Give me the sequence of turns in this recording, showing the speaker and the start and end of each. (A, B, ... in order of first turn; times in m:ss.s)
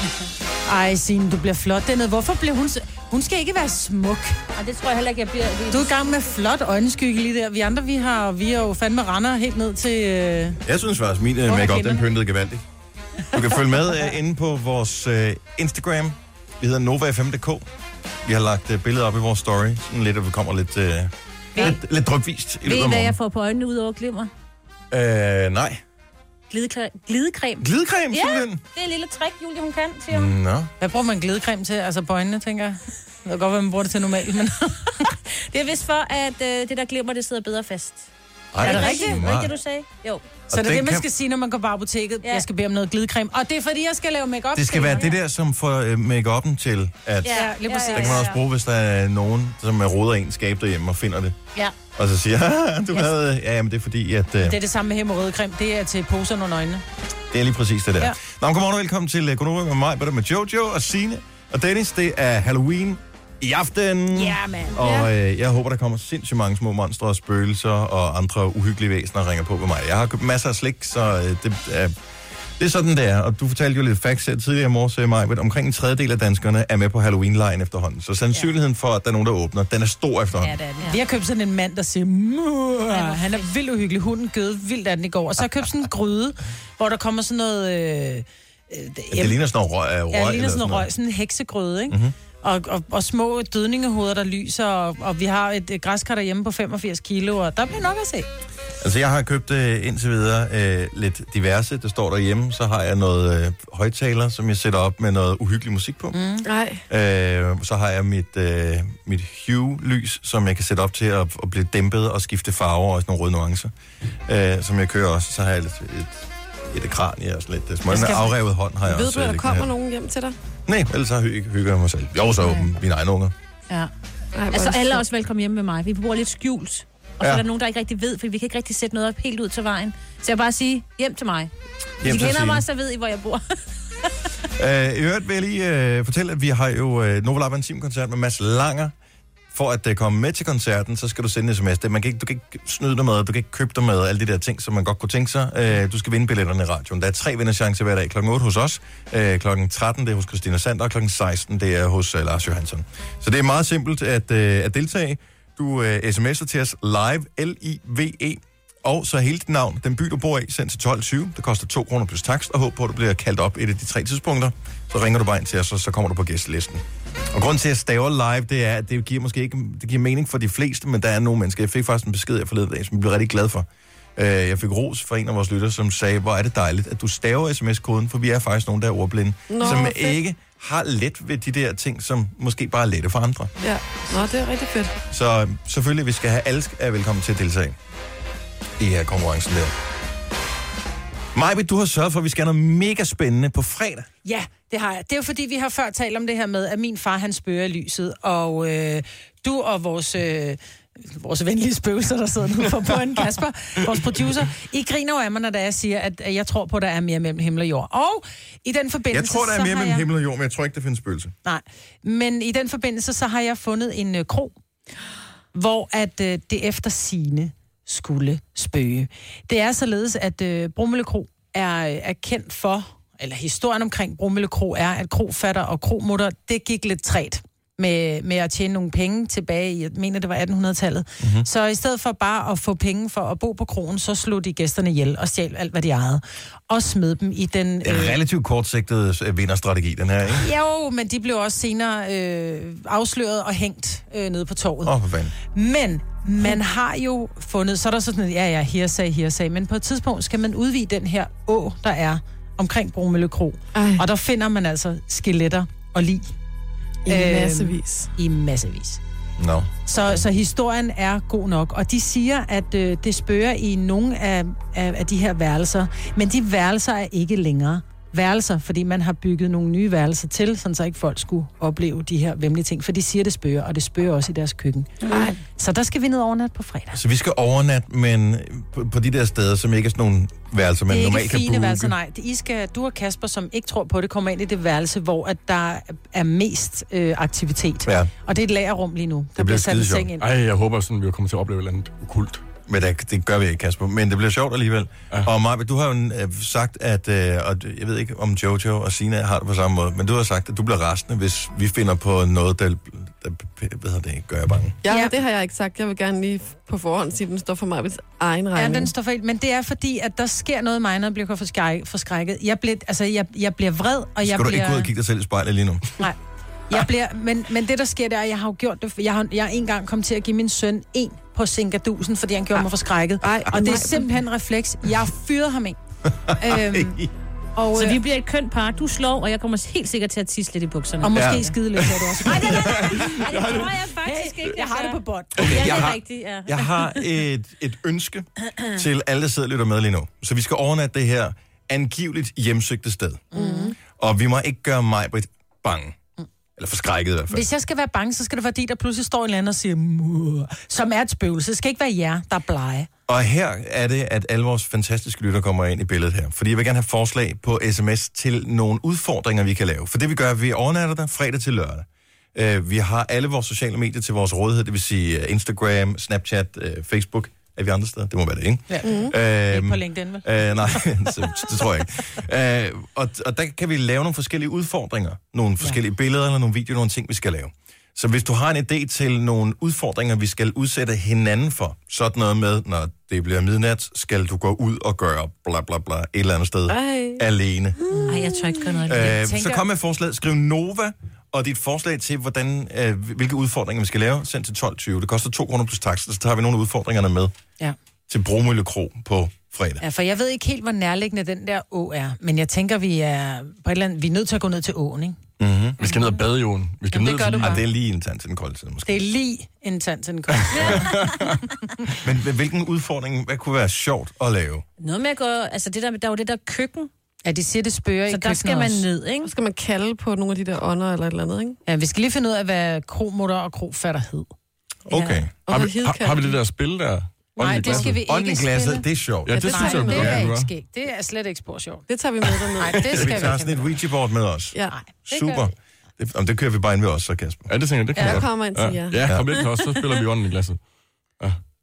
0:00.7-0:04.4 A
0:04.6-0:06.1 B
0:05.7-0:10.6 A
0:10.7-0:12.6 C
0:11.5-0:12.0 A
0:13.3-0:17.7 C
0:18.2-0:23.2 C
0:22.6-0:24.3 B
0:24.9-0:25.8 C
0:26.5-0:30.3 B
0:27.6-0:28.6 C
0:30.1-0:30.7 C
0:30.8-0:35.0 A
0:35.5-0:38.1 B
0:38.5-0:39.5 C
0:38.6-0:40.2 B
0:38.6-0:39.2 A
0:40.5-0:41.1 C
0:40.5-0:45.1 A
0:44.6-0:51.4 C
0:47.2-0:48.4 B
0:47.3-0:48.3 A
0:52.0-0:54.6 C
0:54.4-0:56.8 A
0:57.3-1:11.9 C
1:04.1-1:04.8 A
1:04.8-1:05.1 D
1:12.6-1:20.6 C
1:20.4-1:21.0 B
1:20.8-1:29.4 A
1:22.9-1:23.5 B
1:29.1-1:30.9 C
1:30.1-1:38.3 A
1:31.9-1:32.2 C
1:38.8-1:46.2 C
1:46.1-1:46.4 A
1:46.4-1:46.8 D
1:46.9-1:53.7 C
1:54.3-1:59.7 C
1:57.9-1:58.3 A
1:58.8-2:00.4 D
2:00.7-2:03.3 C
2:04.4-2:05.0 D
2:04.5-2:11.5 B
2:12.0-2:12.6 C
2:12.0-2:13.5 B
2:14.6-2:18.9 C
2:19.5-3:03.5 C
2:59.5-3:00.2 D
3:03.6-3:05.0 D
3:05.1-3:07.8 C
3:08.8-3:09.8 C
3:11.3-3:14.1 C
3:14.2-3:30.1 A
3:29.1-3:31.4 C
3:31.4-3:34.5 A
3:35.5-3:58.2 A
3:51.2-3:51.5 C
3:57.8-4:00.5 C
4:00.4-4:04.9 A
4:04.8-4:05.3 C
4:05.5-4:16.3 A
4:13.8-4:14.0 D
4:17.1-4:18.1 D
4:17.1-4:19.0 A
4:19.4-4:20.2 C
4:19.9-4:37.0 A
4:35.1-4:35.4 D
4:36.9-4:42.0 C
4:40.9-4:50.3 A
4:47.9-4:48.1 C
4:49.4-4:50.1 C
4:50.2-4:52.4 E
4:52.7-5:04.8 C
5:04.8-5:08.9 D
5:04.9-5:05.1 A
5:08.6-5:14.9 A
5:14.2-5:16.0 C
5:16.7-5:25.8 A
5:23.2-5:24.1 D
5:26.3-5:27.1 C
5:26.4-5:27.0 A
5:27.6-5:28.0 A
5:27.8-5:31.5 B
5:31.0-5:35.9 A
5:31.1-5:33.3 C
5:32.3-5:37.0 B
5:35.4-5:43.3 C
5:43.3-5:43.8 A
5:43.4-5:43.8 D
5:43.9-5:46.0 C
5:46.6-5:47.5 C
5:47.3-5:52.9 A
5:53.1-6:27.8 C
6:08.7-6:11.5 A
6:08.8-6:09.1 D
6:26.7-6:27.2 D
6:28.1-6:29.2 B
6:28.8-6:37.3 C
6:29.0-6:29.6 A
6:38.1-6:39.8 C
6:39.8-6:45.2 A
6:45.4-6:45.8 C
6:45.8-6:47.6 E
6:46.9-6:47.6 A
6:47.4-6:49.0 C
6:48.9-6:51.0 A
6:50.5-6:51.4 E
6:50.6-6:51.0 B
6:52.0-6:54.6 C
6:54.8-6:56.9 B
6:57.2-6:58.8 A
6:58.1-6:59.3 B
6:59.2-7:01.6 D
7:01.7-7:04.3 A
7:04.9-7:05.3 C
7:04.9-7:05.2 A
7:05.5-7:06.4 D
7:05.5-7:08.0 E
7:07.4-7:11.9 A
7:08.0-7:09.5 C
7:09.3-7:10.5 E
7:09.4-7:10.2 D
7:11.9-7:13.2 D
7:12.6-7:13.7 A
7:12.9-7:17.5 C
7:14.7-7:15.5 A
7:17.5-7:20.6 E
7:18.0-7:19.3 D